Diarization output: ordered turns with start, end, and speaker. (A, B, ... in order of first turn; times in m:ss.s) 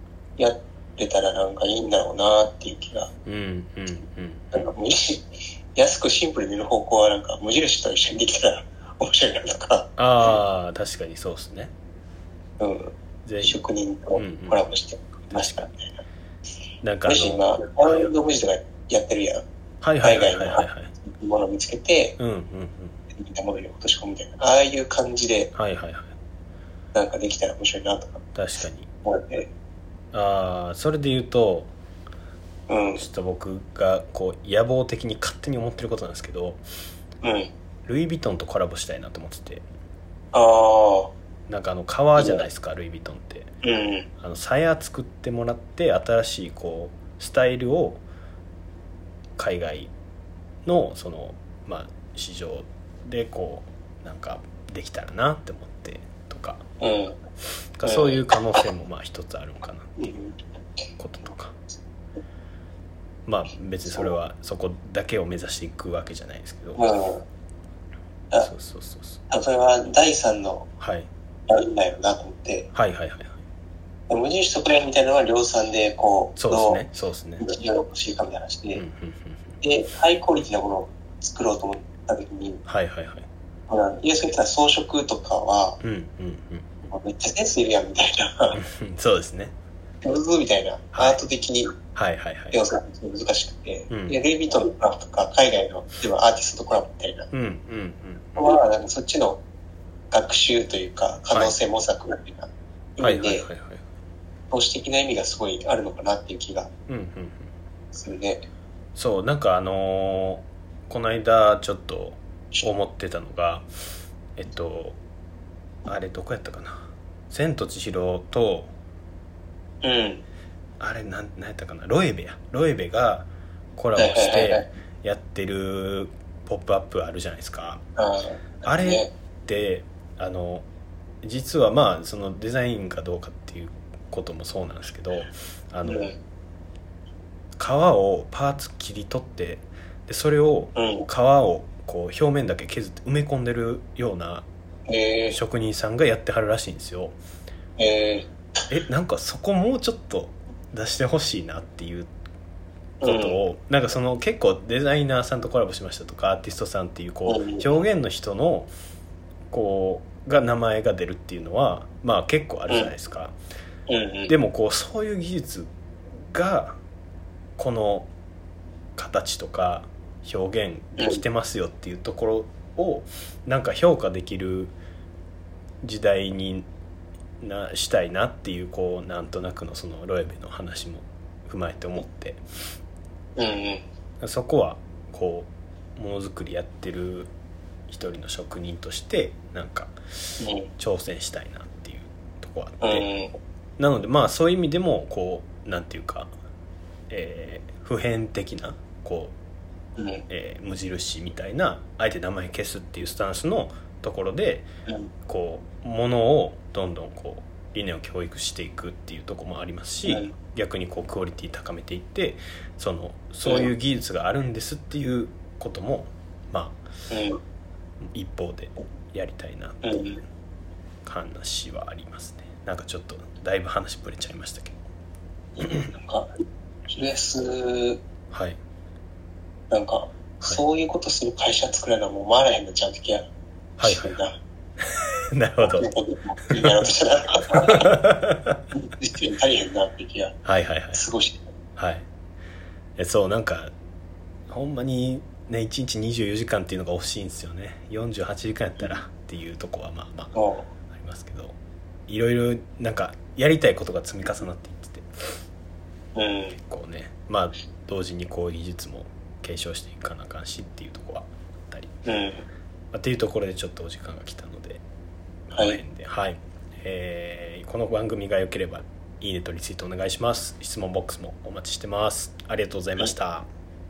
0:00.4-0:03.1 A
0:03.3-0:04.6 B
0:04.5-0:10.4 A
0:10.0-0:11.7 B
0:12.6-0:16.0 A
0:13.2-0:13.6 B
0:14.2-0:14.6 B
0:15.3-0:15.7 B
0:16.8-0:17.4 B
0:17.1-0:19.4 A
0:19.8-0:20.9 B
0:20.0-0:22.2 A
0:22.2-0:23.0 B
0:23.2-0:25.5 A
0:25.6-0:26.2 B
0:26.9-0:28.2 A
0:28.3-0:28.9 B
0:29.0-0:29.5 A
0:30.1-0:31.7 B
0:32.7-0:33.0 A
0:33.0-0:36.6 B
0:37.2-0:37.5 A
0:37.9-0:39.6 B
0:40.3-0:41.1 A
0:41.5-0:43.5 B
0:42.2-0:42.4 A
0:43.6-0:44.1 A
0:44.2-0:48.0 B
0:49.4-0:49.9 B
0:50.7-0:56.6 B
0:56.8-0:57.2 A
0:57.8-1:00.2 B
0:57.8-0:58.2 A
1:00.0-1:00.4 A
1:01.0-1:01.6 B
1:03.3-1:06.9 B
1:06.8-1:07.2 A
1:08.4-1:09.2 B
1:09.3-1:10.7 A
1:10.8-1:11.1 B
1:11.5-1:12.7 A
1:12.7-1:13.4 B
1:14.1-1:16.8 A
1:16.4-1:17.4 B
1:17.4-1:18.8 A
1:18.8-1:19.6 B
1:19.6-1:22.6 A
1:22.7-1:23.3 B
1:23.7-1:25.8 A
1:25.8-1:26.9 B
1:26.9-1:28.6 A
1:28.5-1:29.6 B
1:30.0-1:31.8 A
1:30.9-1:31.2 B
1:32.0-1:32.6 B
1:32.5-1:37.3 A
1:33.9-1:34.2 B
1:37.3-1:38.4 B
1:38.4-1:39.4 A
1:40.1-1:43.5 A
1:43.0-1:43.9 B
1:44.5-1:46.7 A
1:46.9-1:47.5 B
1:47.9-1:48.4 A
1:49.0-1:53.7 B
1:54.4-1:55.0 B
1:55.8-1:58.7 B
1:59.8-2:00.2 A
2:00.8-2:07.8 B
2:04.0-2:04.7 A
2:08.0-2:09.1 A
2:08.6-2:10.7 B
2:11.2-2:16.1 B
2:15.8-2:16.2 A
2:17.6-2:24.5 B
2:20.8-2:21.1 A
2:24.9-2:25.4 A
2:25.3-2:27.2 B
2:27.8-2:28.3 A
2:28.7-2:32.1 B
2:33.0-2:33.4 A
2:33.0-2:38.7 B
2:37.3-2:37.6 A
2:39.5-2:43.4 B
2:43.9-2:44.3 A
2:44.3-2:45.7 B
2:46.3-2:46.8 B
2:47.6-2:48.1 B
2:49.0-2:54.8 B
2:55.8-2:56.7 B
2:57.4-3:02.4 B
3:03.4-3:03.8 A
3:04.2-3:07.3 B
3:07.9-3:09.9 B
3:10.4-3:10.7 A
3:10.8-3:13.1 B
3:12.8-3:13.3 A
3:13.8-3:16.3 B
3:17.1-3:19.4 B
3:20.0-3:20.2 A
3:20.3-3:24.7 B
3:25.2-3:36.8 B
3:30.1-3:30.3 A
3:37.1-3:37.4 A
3:38.1-3:40.0 B
3:39.8-3:40.2 A
3:41.0-3:44.8 B
3:45.6-3:46.3 A
3:46.9-3:48.0 A
3:48.3-3:48.6 B
3:49.7-3:53.3 A
3:53.8-3:54.2 B
3:53.8-3:54.4 A
3:55.3-3:55.9 B
3:55.6-3:57.9 A
3:56.6-3:56.9 B
3:57.6-3:58.6 B
3:58.8-4:00.4 A
4:00.4-4:01.1 B
4:01.0-4:01.4 A
4:01.8-4:02.1 B
4:03.0-4:03.7 B
4:04.5-4:10.4 B
4:10.4-4:10.7 A
4:10.9-4:11.6 B
4:12.1-4:15.1 B
4:16.2-4:16.6 A
4:16.5-4:21.9 B
4:22.1-4:22.4 A
4:22.9-4:24.8 B
4:25.5-4:33.5 B
4:25.5-4:25.8 A